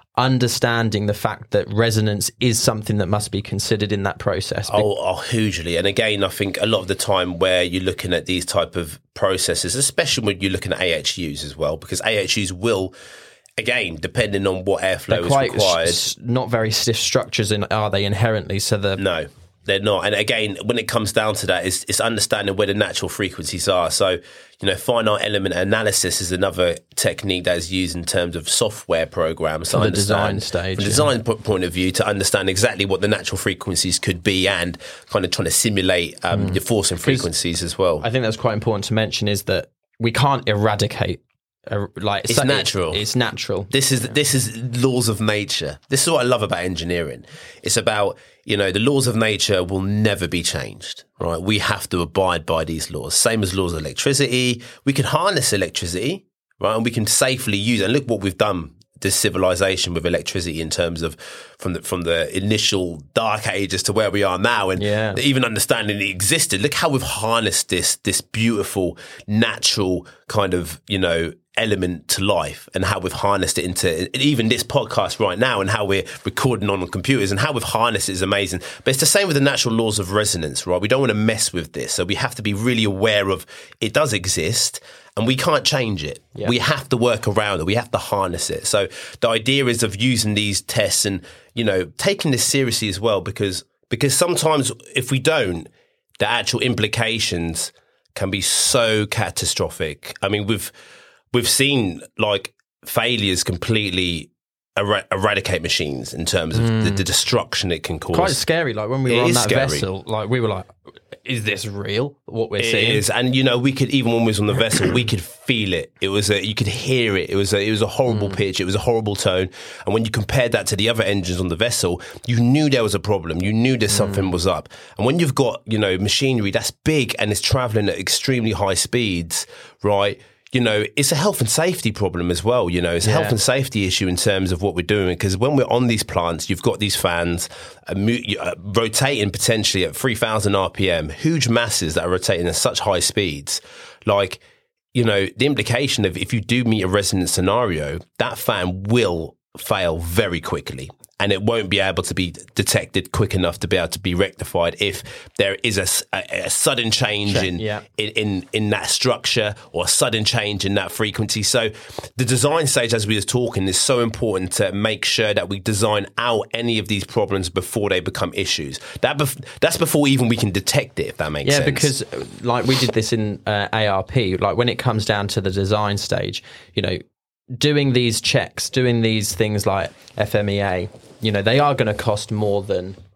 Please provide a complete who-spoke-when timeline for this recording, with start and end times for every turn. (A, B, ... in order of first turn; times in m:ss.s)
0:00.2-0:04.8 A
0:04.7-0:12.9 B
0:13.6-0:16.1 B
0:15.1-0:19.0 A
0:19.0-0:38.0 B
0:29.7-0:31.1 A
0:36.3-0:37.3 A
0:38.0-0:43.7 A
0:42.3-0:43.0 B
0:43.7-1:40.7 B
1:04.8-1:05.2 A
1:41.3-1:48.4 B
1:46.5-1:47.0 A
1:48.1-1:53.0 A
1:49.0-1:49.8 B
1:52.6-2:24.4 B
2:03.9-2:04.3 A
2:13.0-2:13.4 A
2:24.9-2:51.9 B
2:37.2-2:37.8 A
2:51.4-2:57.0 A
2:57.5-3:03.0 A